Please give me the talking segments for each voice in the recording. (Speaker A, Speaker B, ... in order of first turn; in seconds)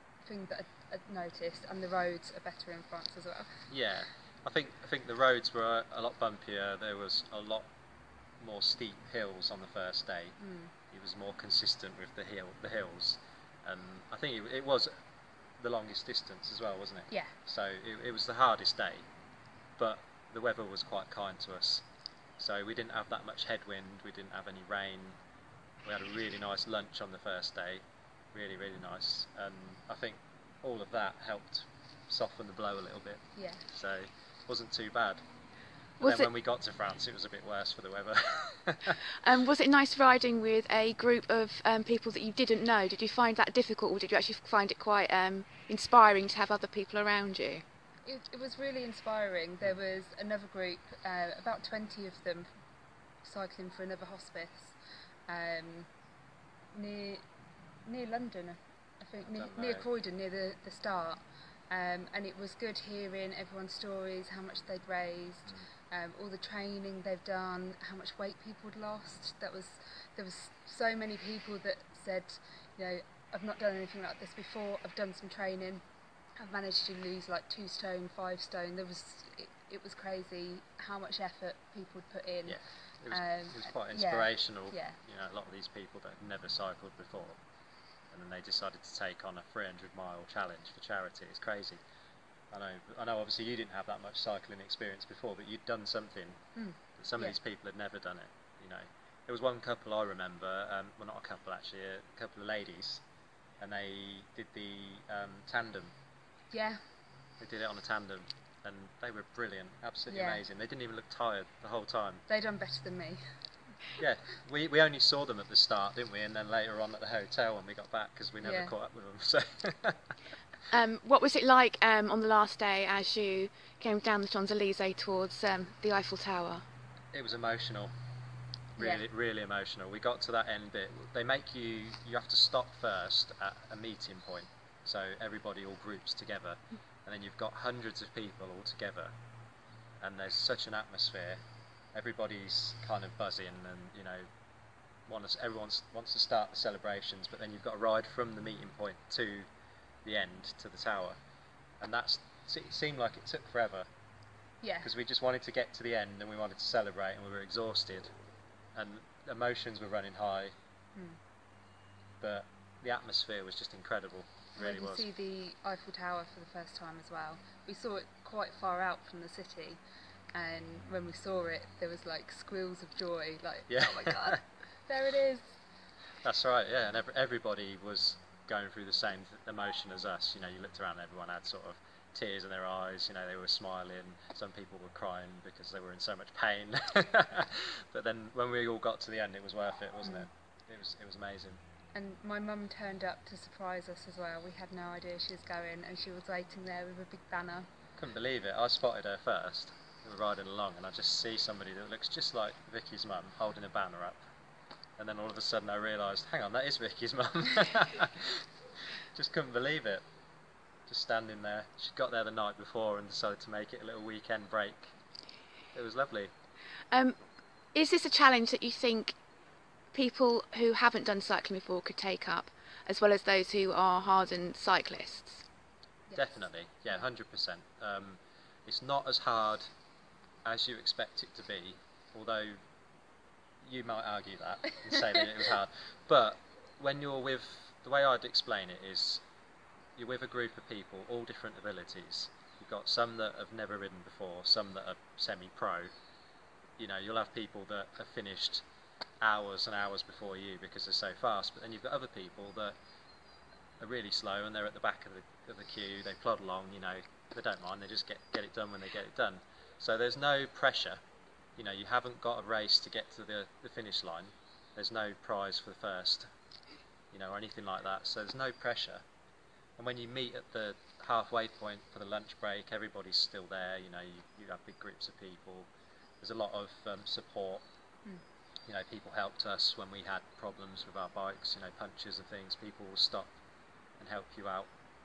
Speaker A: 0.2-3.6, 10.4-10.7, 33.3-33.6, 48.0-52.5, 53.2-54.7, 55.3-55.9, 56.7-57.2, 57.9-75.8, 76.4-82.6, 83.1-85.0, 96.5-97.4, 106.5-106.8, 110.1-110.4, 112.3-113.2, 118.4-118.7, 128.8-129.0, 154.6-154.9, 164.6-169.8, 170.3-175.6, 190.0-190.3, 191.9-197.7, 226.1-226.4
Speaker B: 3.7-7.7, 8.4-10.4, 10.9-14.9, 15.6-19.0, 19.8-21.8, 22.4-25.2, 25.8-27.8, 28.3-35.2, 36.0-39.0, 59.3-59.9, 82.5-87.4, 88.1-91.8, 92.5-96.4, 97.0-103.0, 103.6-105.9, 107.4-112.2, 114.0-120.1, 127.1-127.9, 128.8-139.1, 140.0-141.4, 141.9-144.2, 145.1-149.5, 150.0-151.2, 151.8-153.9, 154.8-158.1, 158.7-160.5, 162.2-165.0, 173.7-174.4, 176.2-191.6, 198.0-204.2, 205.0-208.5, 209.1-210.0, 210.9-214.9, 215.7-216.3, 226.1-229.7, 230.4-232.6, 233.6-239.2, 239.9-245.9, 246.8-248.6, 249.2-252.8, 253.8-261.0, 261.6-266.3, 267.1-269.0, 269.8-275.7, 276.2-277.6, 278.7-283.3, 284.0-284.7
Speaker C: 36.0-36.3, 39.2-47.6, 120.7-126.6, 216.9-217.2, 217.7-219.1, 219.9-225.4